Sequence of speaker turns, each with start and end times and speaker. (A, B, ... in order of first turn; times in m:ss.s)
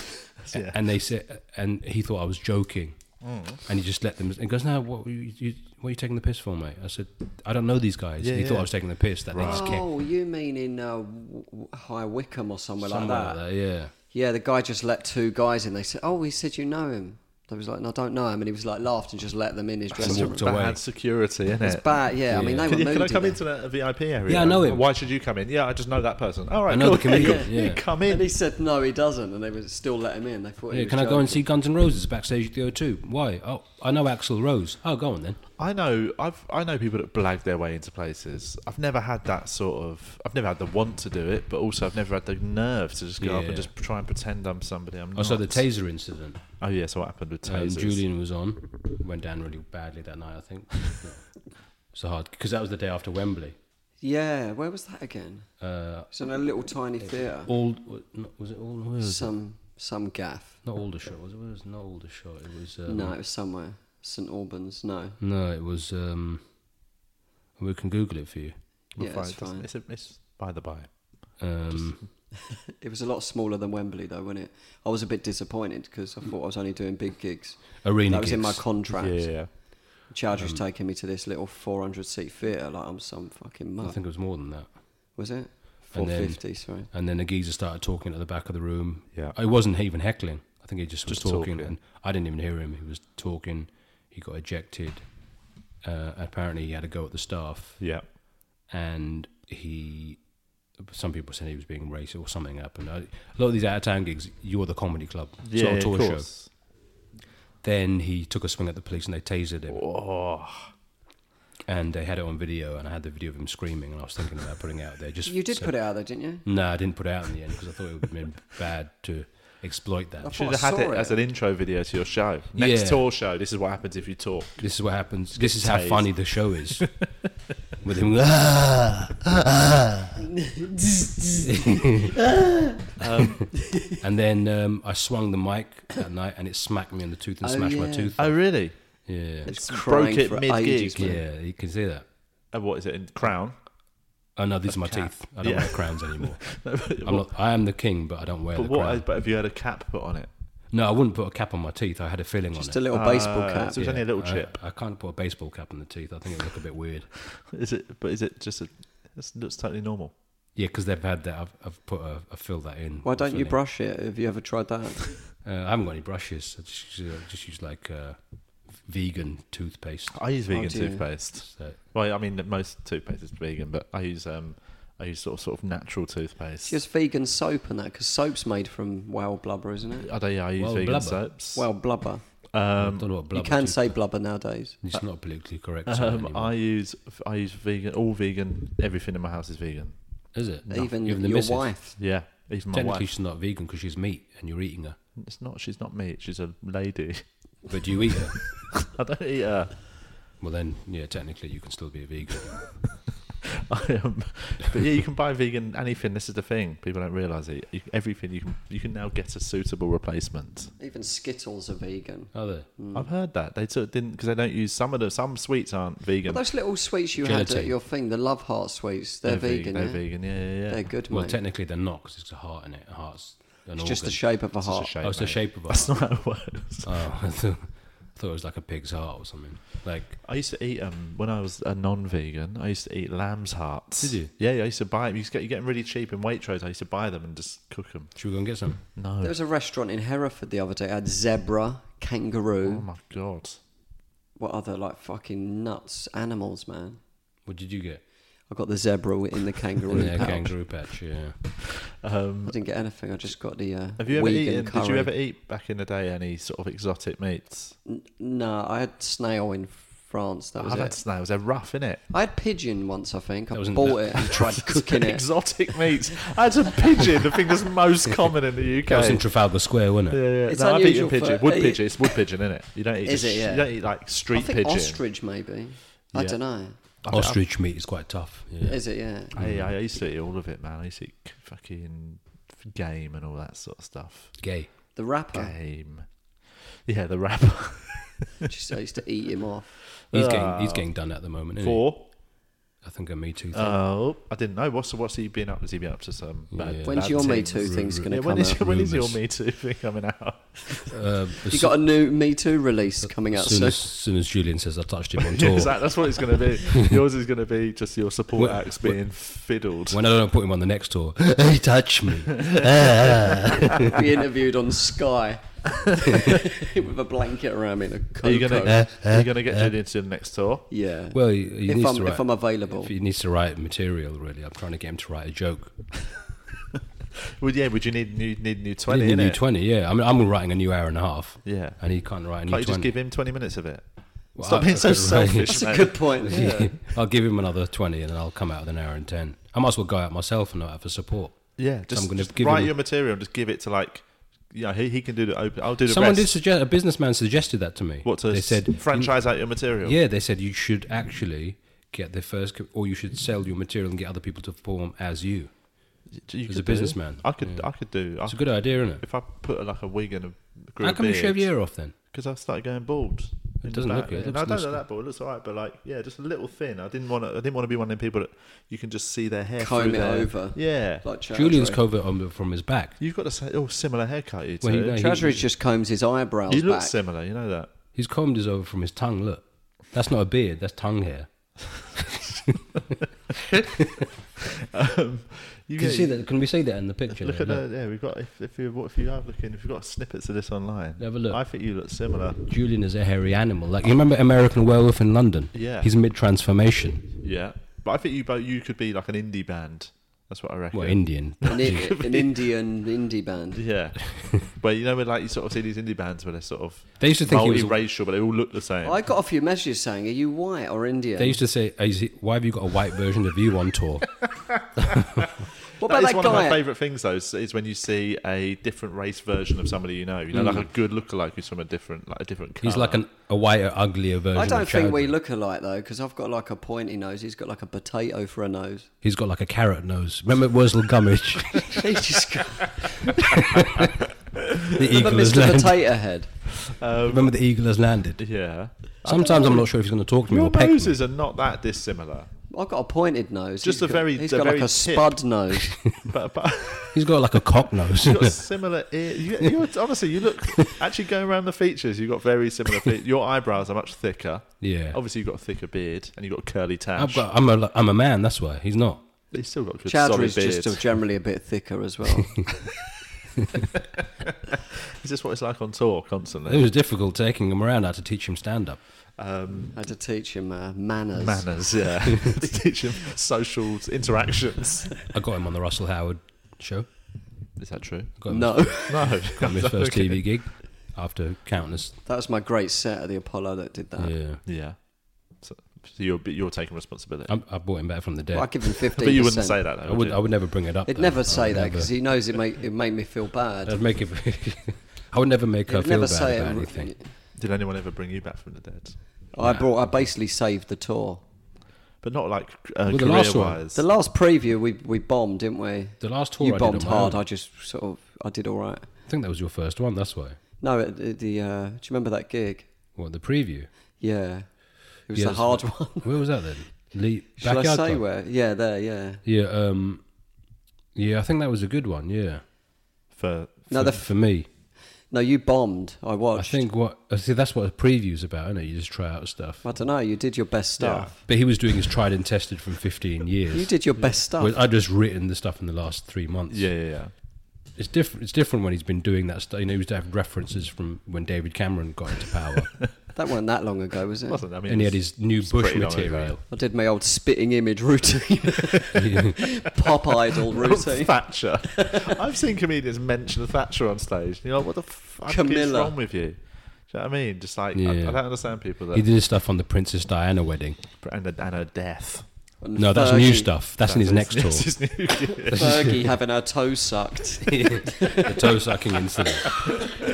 0:00.4-0:00.8 A
0:00.5-0:03.0 B
0:03.2-0:03.6 A
0:03.6-0:09.8 B
0:08.2-0:08.7 A
0:09.3-0:09.8 A
0:09.4-0:13.4 C
0:12.8-0:13.9 B
0:14.1-0:20.4 C
0:19.9-0:22.0 A
0:20.0-0:20.8 B
0:21.6-0:23.4 C
0:22.3-0:22.8 B
0:22.6-0:28.3 A
0:24.3-0:24.8 B
0:26.7-0:27.8 B
0:27.1-0:31.4 C
0:30.7-0:35.4 B
0:35.6-0:45.6 A
0:43.2-0:43.7 B
0:45.2-0:46.4 B
0:46.6-0:48.0 A
0:47.4-0:51.4 B
0:51.9-0:53.6 B
0:54.0-0:55.5 C
0:55.6-0:56.1 B
0:56.1-0:57.5 C
0:57.3-0:59.3 B
0:59.0-1:00.6 C
1:00.6-1:03.2 B
1:02.9-1:05.2 C
1:05.2-1:06.4 B
1:07.6-1:08.5 B
1:08.9-1:12.0 A
1:09.0-1:09.7 C
1:11.4-1:12.0 B
1:12.5-1:19.5 C
1:17.8-1:18.6 B
1:18.9-1:19.5 A
1:20.0-1:24.0 C
1:20.3-1:20.6 B
1:23.8-1:24.7 B
1:25.2-1:26.9 C
1:25.9-1:35.0 B
1:31.1-1:31.8 A
1:35.8-1:37.8 B
1:38.7-1:40.2 B
1:40.8-1:46.3 B
1:45.4-1:46.5 A
1:47.6-1:49.8 B
1:49.7-1:50.7 A
1:51.7-1:55.7 B
1:55.2-1:56.4 C
1:56.4-2:00.3 B
2:00.2-2:01.2 C
2:00.3-2:04.6 A
2:02.6-2:03.0 B
2:04.6-2:06.9 B
2:05.3-2:06.3 A
2:06.8-2:07.2 A
2:07.8-2:10.0 B
2:10.2-2:12.6 C
2:11.5-2:12.2 B
2:13.0-2:13.6 A
2:13.7-2:14.0 C
2:13.9-2:18.4 B
2:17.4-2:18.1 C
2:18.2-2:21.2 A
2:19.0-2:19.5 B
2:19.4-2:21.2 C
2:21.0-2:22.0 B
2:22.5-2:23.6 A
2:24.4-2:29.0 B
2:24.7-2:27.2 A
2:28.5-2:30.3 A
2:30.7-2:32.8 B
2:32.5-2:33.8 C
2:32.9-2:34.6 A
2:33.8-2:37.1 B
2:37.3-2:40.1 A
2:40.6-2:43.6 B
2:43.0-2:45.1 C
2:45.4-2:50.3 B
2:50.1-2:56.8 A
2:50.5-2:51.1 C
2:51.4-2:51.8 B
2:56.6-3:00.1 C
3:00.0-3:01.7 A
3:00.6-3:01.2 B
3:01.5-3:02.3 C
3:02.5-3:03.1 A
3:02.8-3:03.9 B
3:03.3-3:04.8 C
3:04.8-3:06.5 B
3:05.8-3:10.0 A
3:10.3-3:12.0 B
3:10.7-3:12.0 C
3:12.0-3:13.1 A
3:12.7-3:15.0 B
3:15.2-3:17.2 A
3:17.7-3:18.6 B
3:18.5-3:19.8 A
3:20.4-3:22.8 B
3:23.4-3:30.7 A
3:30.8-3:33.1 C
3:32.3-3:32.7 B
3:32.9-3:36.4 A
3:36.3-3:41.4 C
3:37.2-3:37.7 B
3:39.2-3:40.8 A
3:41.1-3:44.3 B
3:43.8-3:44.9 C
3:44.6-3:46.9 A
3:45.0-3:46.0 B
3:46.8-3:50.2 B
3:50.2-3:58.2 A
3:54.0-3:54.3 B
3:58.1-3:58.8 B
3:58.8-3:59.3 A
3:59.2-4:02.8 C
4:02.6-4:03.6 A
4:04.4-4:07.0 C
4:07.4-4:08.0 B
4:08.5-4:10.5 C
4:09.9-4:11.4 B
4:10.0-4:10.4 A
4:11.8-4:12.5 A
4:12.4-4:15.1 C
4:14.0-4:17.8 A
4:17.8-4:21.0 C
4:20.6-4:22.0 A
4:22.1-4:25.2 C
4:23.5-4:24.8 B
4:24.7-4:29.2 A
4:28.8-4:30.2 B
4:30.1-4:35.0 A
4:30.5-4:31.9 C
4:33.0-4:33.7 C
4:34.3-4:36.8 C
4:37.0-4:37.4 A
4:37.1-4:38.8 B
4:38.6-4:39.4 C
4:39.3-4:39.7 B
4:39.3-4:44.3 A
4:44.4-4:44.7 B
4:44.9-4:45.5 C
4:45.3-4:48.4 A
4:48.4-4:49.7 C
4:50.1-4:50.9 A
4:50.1-4:51.9 B
4:51.6-4:52.0 A
4:52.8-4:53.8 B
4:53.5-5:00.9 A
4:56.5-4:59.2 B
4:56.8-4:58.6 C
5:00.9-5:01.8 B
5:01.5-5:03.8 C
5:03.0-5:05.8 B
5:05.2-5:10.0 A
5:06.7-5:06.9 B
5:08.4-5:09.0 B
5:09.9-5:14.0 B
5:12.4-5:13.1 A
5:13.8-5:18.9 C
5:18.2-5:20.7 A
5:18.7-5:19.7 B
5:20.7-5:22.9 C
5:21.1-5:25.8 B
5:27.4-5:29.4 A
5:28.9-5:32.9 B
5:31.4-5:31.8 A
5:32.4-5:36.7 A
5:34.4-5:42.7 B
5:35.5-5:36.7 C
5:41.6-5:46.3 A
5:45.8-5:55.5 B
5:48.0-5:50.0 A
5:56.1-6:01.5 A
5:56.5-5:59.0 B
6:00.8-6:02.0 B
6:02.1-6:11.0 A
6:03.6-6:04.8 B
6:09.6-6:11.8 C
6:11.3-6:13.0 B
6:13.0-6:15.0 A
6:14.6-6:15.4 B
6:14.9-6:16.9 C
6:16.5-6:17.7 A
6:17.9-6:22.8 B
6:24.4-6:26.2 A
6:25.8-6:27.6 B
6:27.1-6:32.4 A
6:31.0-6:31.4 B
6:32.4-6:37.2 B
6:35.5-6:35.9 A
6:37.2-6:42.3 A
6:40.7-6:41.9 B
6:41.4-6:43.6 C
6:43.5-6:49.0 A
6:47.0-6:47.8 B
6:48.8-6:51.4 C
6:51.2-6:54.3 B
6:54.2-6:55.3 A
6:54.8-6:55.3 B
6:55.8-6:56.6 C
6:55.8-7:03.0 A
7:00.3-7:00.6 B
7:02.6-7:05.1 B
7:04.3-7:08.9 C
7:09.0-7:12.0 B
7:11.7-7:13.2 C
7:13.1-7:13.9 B
7:13.5-7:13.9 A
7:14.7-7:15.8 B
7:14.8-7:16.3 C
7:16.6-7:17.3 A
7:17.1-7:18.3 B
7:18.2-7:19.7 A
7:19.0-7:21.0 B
7:20.3-7:22.3 A
7:22.5-7:25.8 C
7:23.6-7:25.2 A
7:26.0-7:27.0 A
7:26.9-7:28.4 B
7:27.8-7:37.3 A
7:34.6-7:35.0 B
7:37.0-7:39.0 B
7:39.3-7:40.8 A
7:39.8-7:42.5 C
7:43.7-7:46.7 A
7:46.5-7:48.8 B
7:49.2-7:49.8 A
7:49.7-7:51.6 C
7:51.2-7:54.9 A
7:55.1-7:56.9 B
7:57.6-8:00.3 A
7:58.2-8:02.0 B
7:58.3-7:59.2 C
8:02.0-8:04.1 C
8:04.0-8:04.4 B
8:04.4-8:07.3 A
8:07.3-8:08.8 B
8:08.3-8:09.6 C
8:09.0-8:10.2 A
8:09.8-8:12.0 B
8:10.8-8:13.8 C
8:13.6-8:16.9 B
8:15.7-8:17.1 C
8:17.3-8:19.0 A
8:19.3-8:21.2 C
8:19.4-8:19.9 B
8:22.0-8:23.8 A
8:22.9-8:23.6 B
8:23.7-8:28.9 C
8:26.0-8:27.2 B
8:29.1-8:30.4 B
8:30.6-8:32.7 C
8:32.9-8:33.7 B
8:34.0-8:36.2 C
8:35.1-8:38.0 B
8:37.4-8:39.2 C
8:39.2-8:40.0 B
8:40.9-8:42.4 B
8:43.1-8:43.8 A
8:43.7-8:44.1 C
8:43.7-8:44.5 B
8:45.1-8:46.6 C
8:46.4-8:49.7 B
8:49.6-8:51.2 C
8:50.8-8:51.1 A
8:51.2-8:53.7 B
8:53.5-8:54.5 C
8:54.3-8:56.7 B
8:56.5-8:57.1 A
8:57.8-9:02.9 B
9:03.1-9:04.4 C
9:04.3-9:06.4 A
9:04.7-9:06.4 B
9:06.5-9:12.2 C
9:08.9-9:09.4 B
9:10.4-9:19.1 A
9:15.3-9:15.9 C
9:17.7-9:18.2 B
9:18.9-9:20.8 B
9:21.0-9:22.3 A
9:22.6-9:23.5 C
9:22.8-9:24.7 B
9:23.8-9:26.0 A
9:25.5-9:26.0 B
9:25.5-9:28.6 C
9:27.5-9:29.6 B
9:29.4-9:29.7 A